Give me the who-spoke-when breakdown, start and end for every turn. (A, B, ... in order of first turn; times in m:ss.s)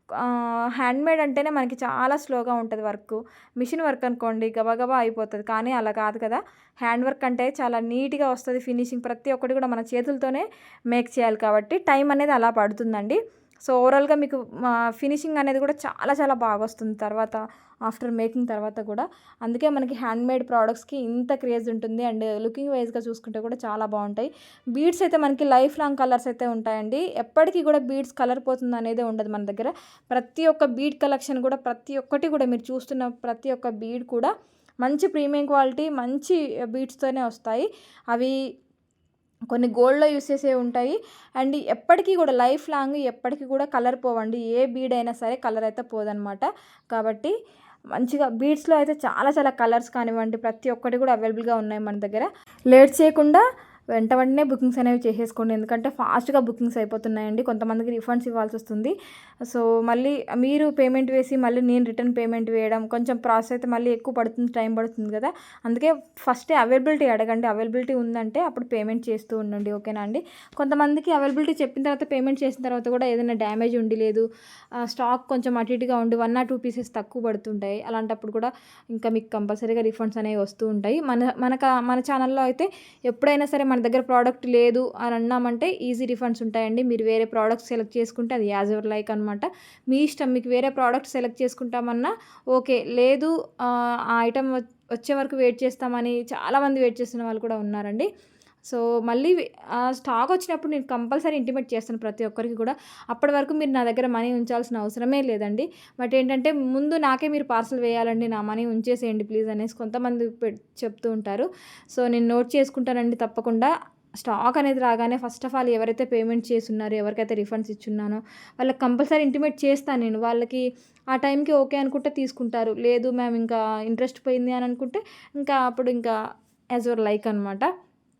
0:00.1-0:38.3 A
0:39.5-0:47.4 A
0:48.0-0:53.4 A
0:54.0-0:59.0 A
0:59.5-1:14.2 A
1:14.8-1:38.1 A
1:38.6-2:06.2 A
2:06.8-2:07.7 A